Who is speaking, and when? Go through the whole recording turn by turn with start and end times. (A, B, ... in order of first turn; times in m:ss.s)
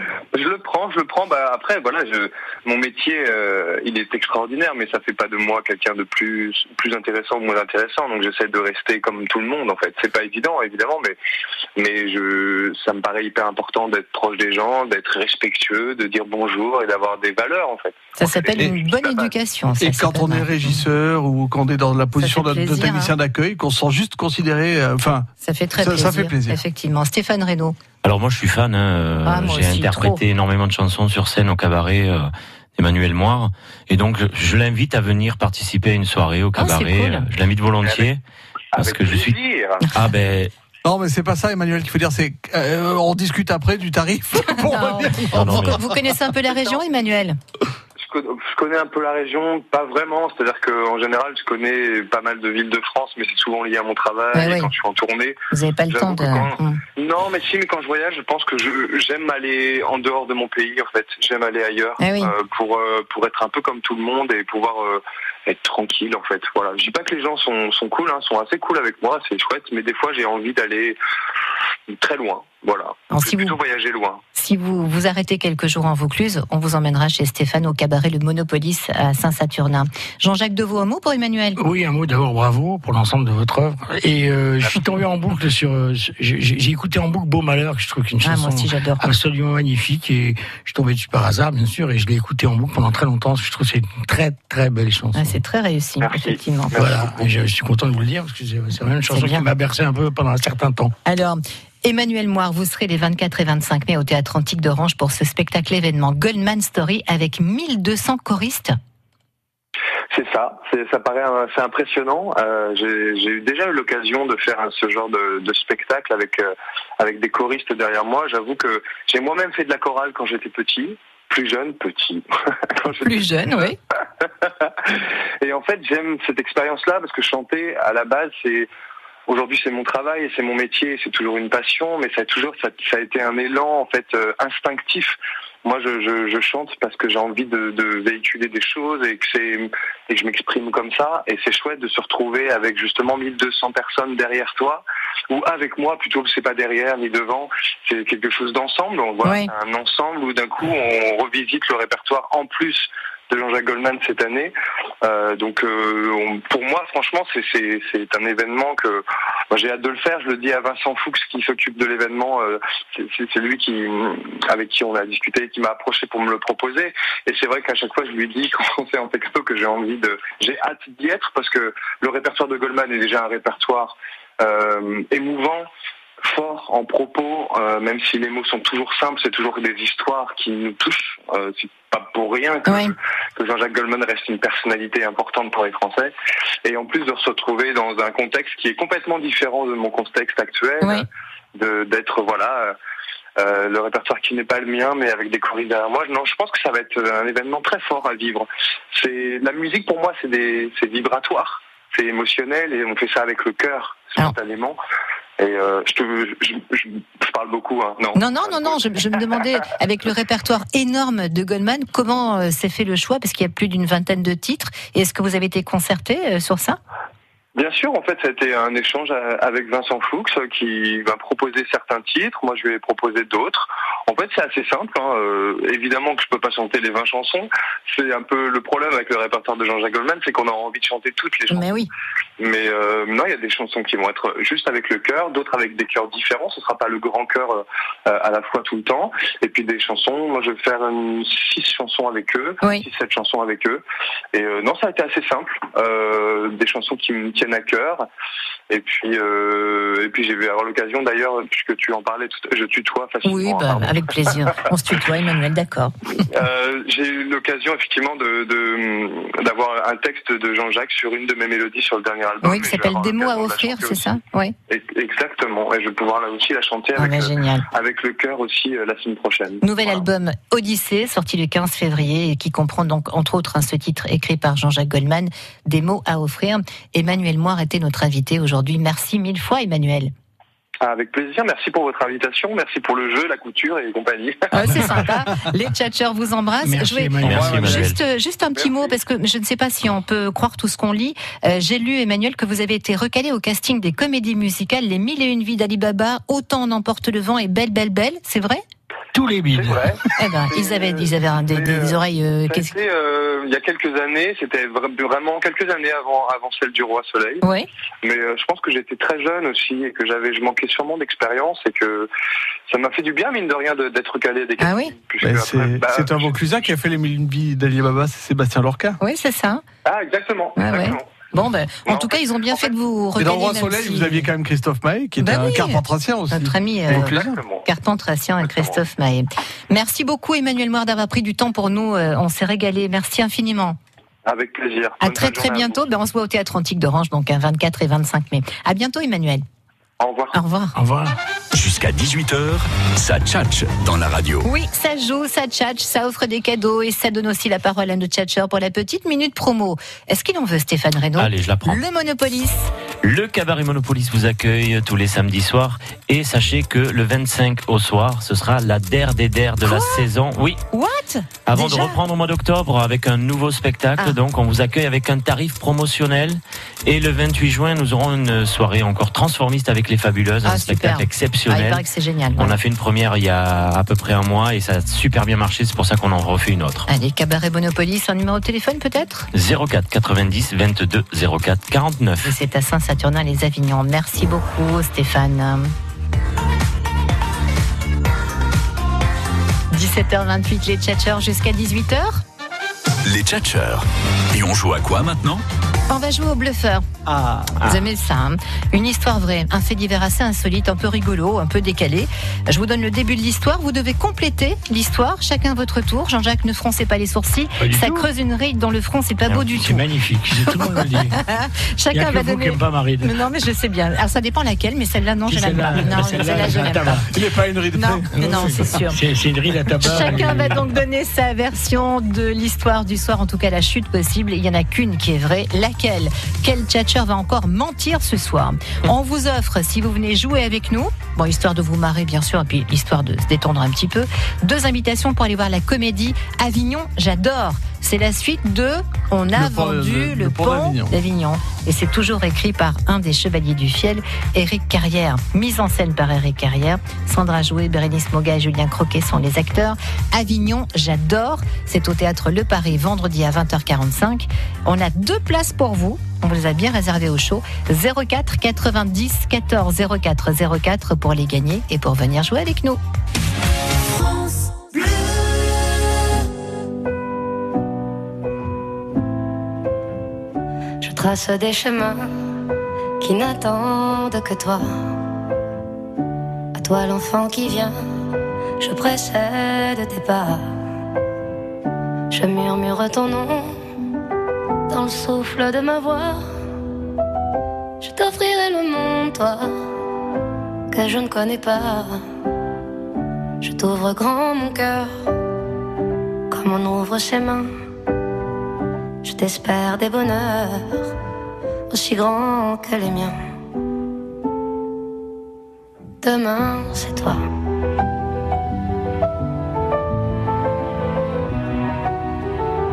0:00.3-0:11.2 A
0:11.8-0:19.3 A
0:18.2-0:20.8 B
0:19.7-0:25.3 C
0:22.2-0:23.1 B
0:25.4-0:27.8 B
0:25.8-0:26.6 C
0:28.0-0:38.2 D
0:29.2-0:30.2 B
0:36.6-0:37.3 B
0:37.8-0:38.1 A
0:38.7-0:39.8 A
0:38.8-0:39.4 D
0:39.9-0:40.5 D
0:40.8-0:45.9 C
0:44.5-0:47.4 B
0:45.3-0:45.8 D
0:48.0-1:11.0 A
0:54.3-0:54.7 B
0:55.5-0:56.8 B
1:02.0-1:02.3 B
1:11.9-1:14.2 A
1:13.1-1:13.6 B
1:14.4-1:21.6 B
1:21.6-1:35.4 E
1:28.2-1:29.1 B
1:35.1-1:36.8 B
1:36.0-1:37.2 A
1:36.7-1:40.9 E
1:39.1-1:39.5 B
1:41.0-1:48.8 B
1:50.1-2:03.6 A
2:03.0-2:03.8 B
2:04.4-2:08.7 A
2:09.3-2:55.7 A
2:29.2-2:29.5 B
2:56.2-3:06.1 A
3:02.7-3:02.9 B
3:06.6-3:12.7 A
3:13.4-3:24.8 A
3:25.4-3:29.2 A
3:28.1-3:36.8 B
3:37.5-3:51.7 A
3:51.5-3:51.9 B
3:52.4-4:08.1 A
4:08.7-4:14.3 A
4:13.2-4:15.9 B
4:16.3-4:24.1 A
4:22.4-4:24.5 B
4:24.7-4:30.0 A
4:27.0-4:27.6 B
4:29.6-4:40.1 B
4:40.8-4:44.5 A
4:44.5-4:58.6 B
4:46.6-4:47.9 E
4:47.2-4:48.0 D
4:47.3-4:47.7 C
4:48.6-4:49.0 A
4:59.1-4:59.9 E
4:59.5-5:07.4 A
5:00.2-5:02.7 B
5:07.4-5:07.7 B
5:08.0-5:12.1 A
5:12.7-5:16.3 A
5:14.6-5:14.9 B
5:15.2-5:19.0 C
5:19.0-5:19.6 B
5:19.8-5:21.0 A
5:20.6-5:24.3 B
5:21.9-5:22.7 A
5:23.2-5:27.4 C
5:25.2-5:33.8 B
5:26.9-5:27.7 A
5:28.4-5:28.8 A
5:34.2-5:35.8 A
5:35.0-5:39.4 B
5:40.0-5:40.3 A
5:40.3-5:40.7 B
5:40.7-5:41.1 E
5:41.5-5:44.5 F
5:44.4-5:52.7 B
5:51.2-5:51.8 D
5:53.0-6:00.6 D
5:59.6-6:00.1 B
6:00.7-6:02.0 B
6:01.4-6:11.8 D
6:10.4-6:12.6 B
6:12.4-6:16.8 D
6:16.9-6:19.3 B
6:19.3-6:22.3 D
6:22.2-6:25.7 B
6:29.7-6:32.2 B
6:33.0-6:35.4 F
6:35.9-6:36.9 B
6:37.1-6:37.8 D
6:37.5-6:49.8 B
6:47.6-6:48.1 E
6:49.5-6:51.2 E
6:51.3-6:57.0 B
6:51.9-6:53.1 E
6:55.3-6:57.1 E
6:57.1-6:58.6 C
6:57.7-6:59.0 B
6:58.1-7:00.6 E
6:59.8-7:42.8 B
7:19.3-7:21.0 C
7:50.8-7:52.1 G
7:53.0-7:54.8 G
7:56.5-7:57.7 G
7:58.6-8:00.5 G
8:02.1-8:03.6 G
8:04.7-8:06.2 G
8:07.8-8:09.6 G
8:10.7-8:12.0 G
8:13.4-8:15.0 G
8:16.3-8:17.5 G
8:19.0-8:20.9 G
8:21.7-8:23.2 G
8:26.0-8:27.2 G